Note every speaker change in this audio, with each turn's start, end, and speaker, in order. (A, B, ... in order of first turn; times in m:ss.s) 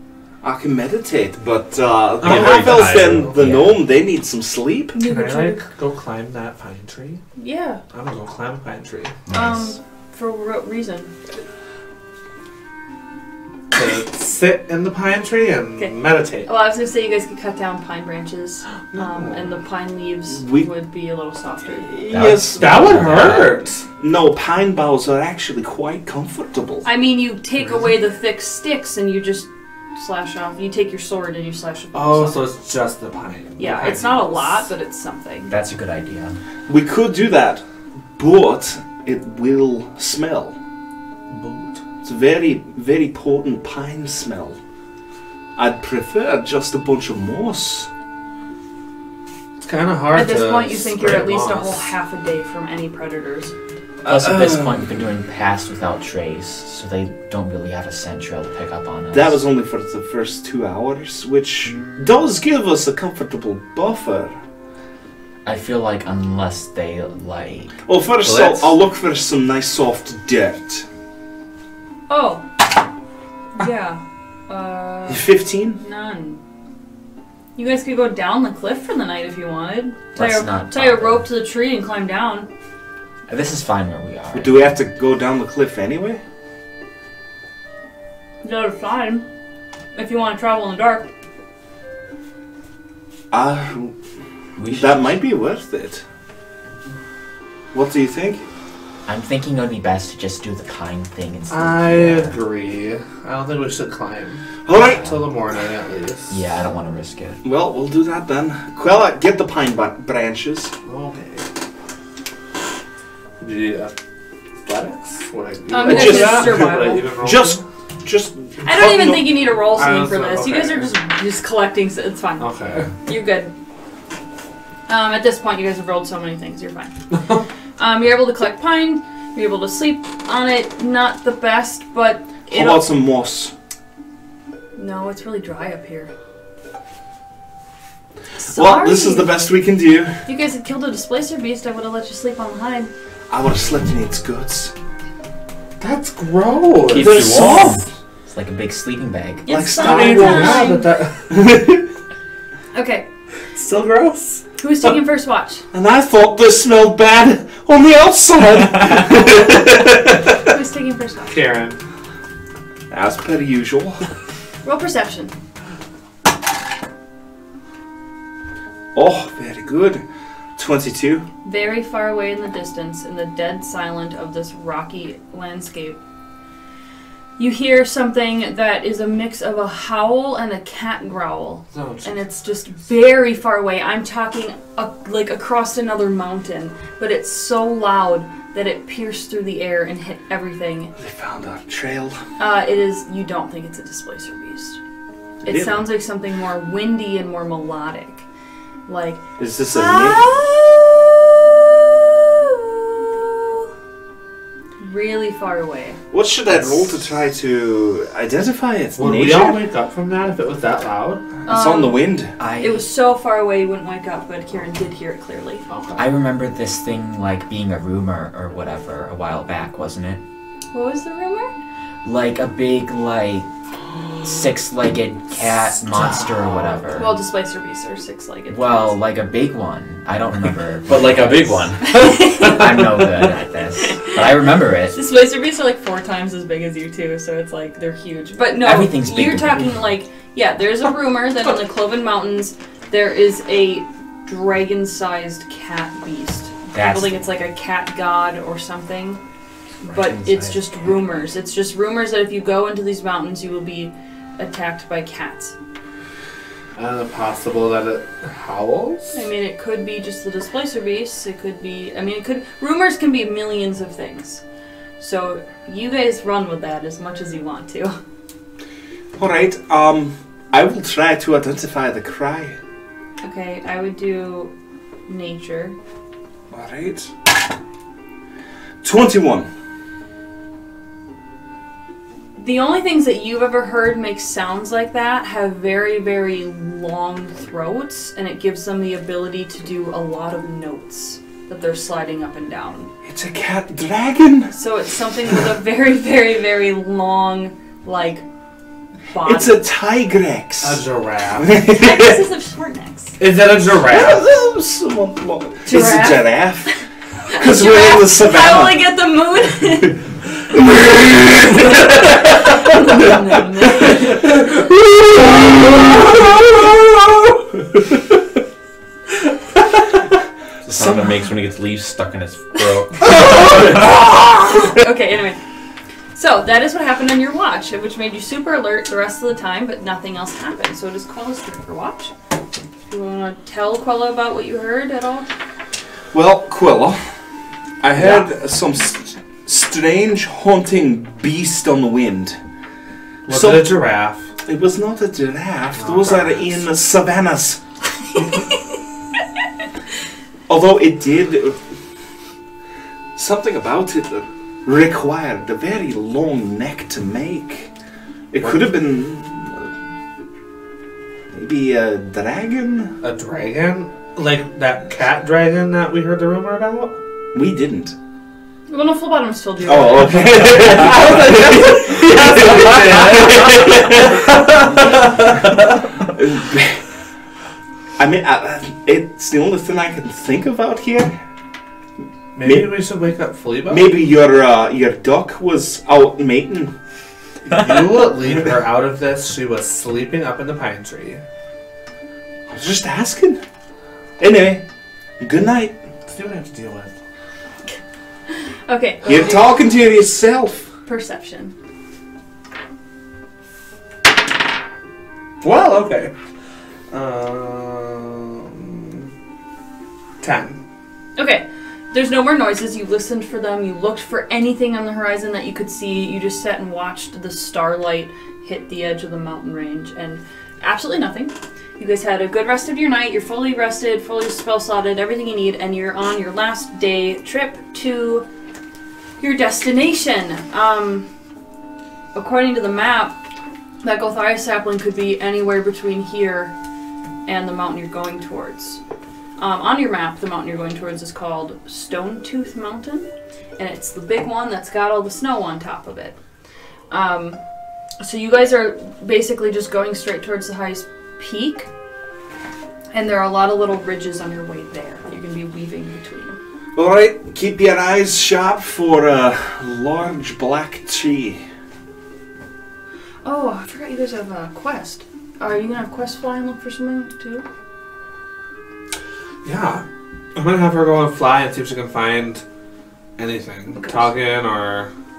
0:00.4-0:05.0 A
0:02.2-0:03.3 B
0:02.2-0:03.4 C
0:03.3-0:03.8 D
0:04.9-0:05.7 E
0:05.0-0:07.2 C
0:07.4-0:07.8 E
0:07.9-0:09.2 C
0:09.3-0:09.7 D
0:09.3-0:11.1 E
0:13.7-0:16.5 C
0:15.8-0:22.4 E
0:18.9-0:19.5 C
0:20.4-0:20.7 A
0:22.0-0:23.4 A
0:22.1-0:23.5 D
0:22.5-0:23.8 C
0:24.0-0:26.9 A
0:26.8-0:32.4 E
0:31.9-0:34.6 C
0:33.6-0:35.5 E
0:35.5-0:36.4 D
0:36.7-0:37.6 A
0:38.1-0:40.6 A
0:41.3-0:41.8 C
0:42.0-0:44.6 A
0:45.6-0:47.9 A
0:49.6-0:51.9 C
0:50.1-0:53.5 E
0:54.0-0:54.9 A
0:54.1-0:59.4 D
0:59.1-1:04.3 A
1:01.7-1:02.0 D
1:05.4-1:07.8 D
1:07.9-1:10.9 A
1:08.3-1:08.6 C
1:12.1-1:12.4 E
1:13.6-1:16.4 E
1:15.1-1:15.8 A
1:17.6-1:22.5 E
1:20.2-1:21.3 D
1:23.3-1:24.7 D
1:24.3-1:26.2 A
1:28.4-1:29.3 E
1:29.9-1:31.1 E
1:33.3-1:33.9 A
1:34.6-1:35.0 D
1:34.7-1:36.0 A
1:37.7-1:38.4 A
1:39.1-1:42.4 D
1:41.5-1:46.4 C
1:44.6-1:45.0 A
1:44.7-1:45.1 D
1:46.3-1:47.4 D
1:47.4-1:50.7 A
1:50.8-1:51.4 C
1:53.4-1:53.9 C
1:54.6-1:57.6 C
1:55.7-1:57.1 E
1:55.8-1:59.4 A
1:58.6-2:02.5 E
1:59.6-2:00.9 C
2:02.4-2:02.9 C
2:03.0-2:03.5 E
2:04.9-2:06.9 E
2:07.8-2:12.8 E
2:12.5-2:13.5 A
2:14.8-2:16.1 E
2:18.4-2:19.3 E
2:18.5-2:20.2 A
2:20.3-2:22.9 E
2:23.3-2:24.7 A
2:25.8-2:27.2 C
2:26.9-2:27.8 B
2:26.9-2:29.6 D
2:26.9-2:27.8 A
2:29.4-2:30.9 E
2:29.5-2:30.8 A
2:29.7-2:31.3 C
2:31.3-2:31.8 A
2:32.7-2:33.1 E
2:33.5-2:34.5 C
2:34.6-2:35.7 E
2:35.7-2:40.0 A
2:39.9-2:40.1 C
2:40.5-2:41.4 E
2:41.3-2:41.8 C
2:42.9-2:44.0 A
2:44.6-2:45.3 E
2:49.0-2:50.0 A
2:50.6-2:51.3 A
2:51.4-2:56.0 E
2:57.4-3:10.9 E
3:01.7-3:02.2 C
3:11.0-3:12.2 A
3:12.4-3:14.8 E
3:15.4-3:15.9 A
3:15.4-3:18.2 E
3:18.9-3:23.7 E
3:19.4-3:20.2 A
3:24.8-3:26.0 E
3:26.1-3:29.6 A
3:29.0-3:31.2 C
3:31.4-3:32.4 A
3:31.5-3:35.7 E
3:32.4-3:32.9 D
3:35.7-3:36.1 C
3:36.0-3:40.2 D
3:40.7-3:41.5 E
3:42.0-3:43.5 D
3:44.2-3:47.1 D
3:45.9-3:46.7 C
3:46.9-3:49.0 E
3:48.5-3:55.0 D
3:50.9-3:51.9 B
3:51.9-3:52.8 E
3:53.8-4:09.2 E
3:58.6-3:59.7 D
4:06.7-4:07.2 D
4:09.8-4:15.6 E
4:10.1-4:10.5 B
4:16.8-4:19.2 C
4:19.1-4:24.4 E
4:25.0-4:28.0 E
4:29.2-4:32.6 A
4:33.2-4:34.5 E
4:35.1-4:35.8 E
4:36.5-4:37.1 A
4:38.8-4:39.5 A
4:42.4-4:52.9 E
4:53.0-4:54.6 A
4:54.5-4:58.2 E
4:59.1-4:59.6 E
4:59.2-5:00.8 A
5:00.6-5:01.5 C
5:01.4-5:02.2 A
5:01.6-5:03.2 E
5:03.2-5:04.2 C
5:03.8-5:06.8 A
5:05.6-5:06.4 E
5:07.3-5:10.0 E
5:07.3-5:08.8 A
5:10.8-5:11.4 A
5:11.6-5:14.5 E
5:20.6-5:21.2 A
5:20.7-5:23.4 B
5:24.5-5:25.4 E
5:26.2-5:32.1 E
5:32.9-5:35.3 E
5:36.1-5:37.1 A
5:37.8-5:42.4 A
5:38.0-5:38.3 C
5:43.3-5:43.8 A
5:43.3-5:44.3 C
5:44.4-5:47.6 A
5:45.8-5:46.6 C
5:50.5-5:51.6 A
5:53.2-5:57.7 A
5:58.3-5:59.7 A
5:58.4-5:58.7 C
6:01.3-6:03.0 A
6:03.0-6:07.0 C
6:07.3-6:08.0 A
6:08.7-6:10.4 E
6:09.6-6:14.2 A
6:10.3-6:15.5 C
6:16.0-6:16.8 A
6:18.0-6:21.1 A
6:22.3-6:23.9 C
6:22.4-6:22.7 A
6:23.7-6:26.7 A
6:27.5-6:31.2 C
6:32.5-6:33.4 A
6:34.2-6:34.6 A
6:35.2-6:35.8 A
6:36.1-6:36.9 C
6:38.3-6:39.5 E
6:39.0-6:40.7 A
6:40.9-6:41.5 E
6:45.4-6:46.1 C
6:46.9-6:49.0 C
6:50.2-6:50.6 C
6:51.2-7:08.3 E
7:09.2-7:11.1 E
7:12.2-7:13.2 E
7:13.8-7:16.6 E
7:17.3-7:18.8 E
7:19.4-7:26.2 E
7:26.9-7:27.4 E
7:28.0-7:31.7 E
7:32.9-7:36.4 E
7:36.8-7:41.4 A
7:43.2-7:47.5 E
7:49.4-7:52.4 C
7:53.2-7:54.9 C
7:53.8-7:54.2 E